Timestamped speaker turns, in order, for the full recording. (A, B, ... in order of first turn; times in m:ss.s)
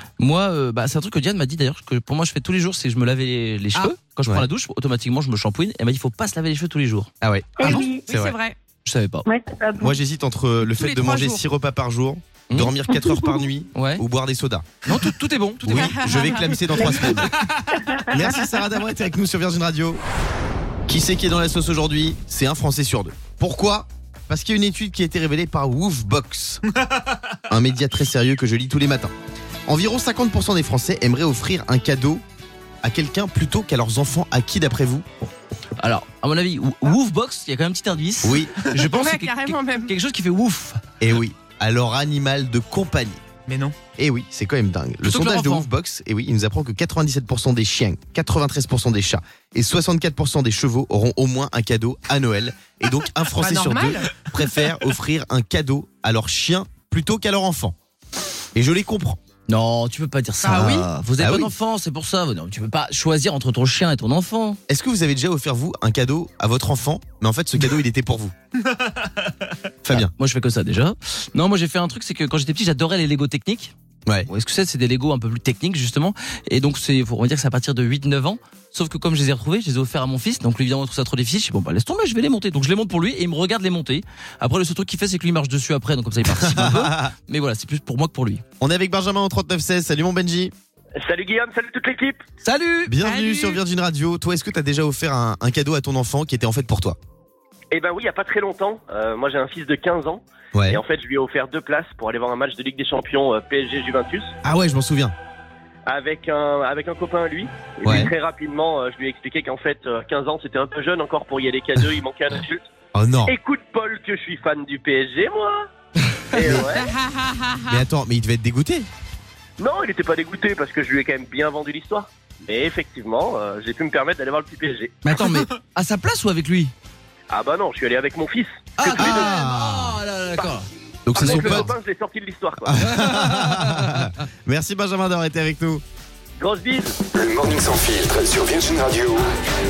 0:00.2-0:07.1 A
0:07.2-0:08.3 B
0:07.6-0:08.1 C
0:07.6-0:08.6 D
0:08.8-0:09.2 A
0:09.3-0:10.0 C
0:09.8-0:14.7 B
0:10.6-0:11.4 D
0:12.5-0:12.8 A
0:13.8-0:14.0 A
0:14.8-0:16.3 A
0:15.6-0:17.5 B
0:16.0-0:16.6 D
0:16.8-0:18.4 C
0:18.0-0:20.0 B
0:20.9-0:26.6 B
0:27.5-0:29.1 B
0:29.7-0:32.2 B
0:32.8-0:35.1 B
0:35.8-0:40.8 A
0:38.2-0:38.5 B
0:38.7-0:39.9 D
0:41.0-0:43.2 B
0:44.0-0:57.8 B
0:45.0-0:45.7 A
0:53.3-0:54.3 D
0:58.6-0:59.2 B
0:59.5-1:04.6 A
1:00.4-1:00.9 D
1:00.5-1:01.5 B
1:04.7-1:08.3 B
1:09.8-1:10.1 B
1:09.9-1:13.7 A
1:14.3-1:28.4 A
1:26.3-1:27.1 B
1:28.6-1:30.5 B
1:31.0-1:32.2 E
1:32.4-1:32.9 A
1:32.9-1:37.0 B
1:33.0-1:33.6 D
1:37.7-1:44.3 E
1:40.5-1:40.8 B
1:44.4-1:45.1 B
1:45.9-1:52.7 E
1:47.8-1:48.1 B
1:52.9-1:53.4 B
1:53.2-1:55.6 E
1:56.3-1:56.9 E
1:56.4-1:56.7 B
1:57.0-1:57.6 D
1:57.7-1:58.9 B
1:59.6-2:05.0 E
2:05.0-2:06.7 A
2:07.3-2:09.3 E
2:08.8-2:11.7 A
2:08.9-2:10.0 B
2:11.1-2:11.7 B
2:11.2-2:12.8 E
2:12.6-2:15.8 B
2:12.8-2:14.1 A
2:16.4-2:17.0 E
2:17.1-2:19.3 F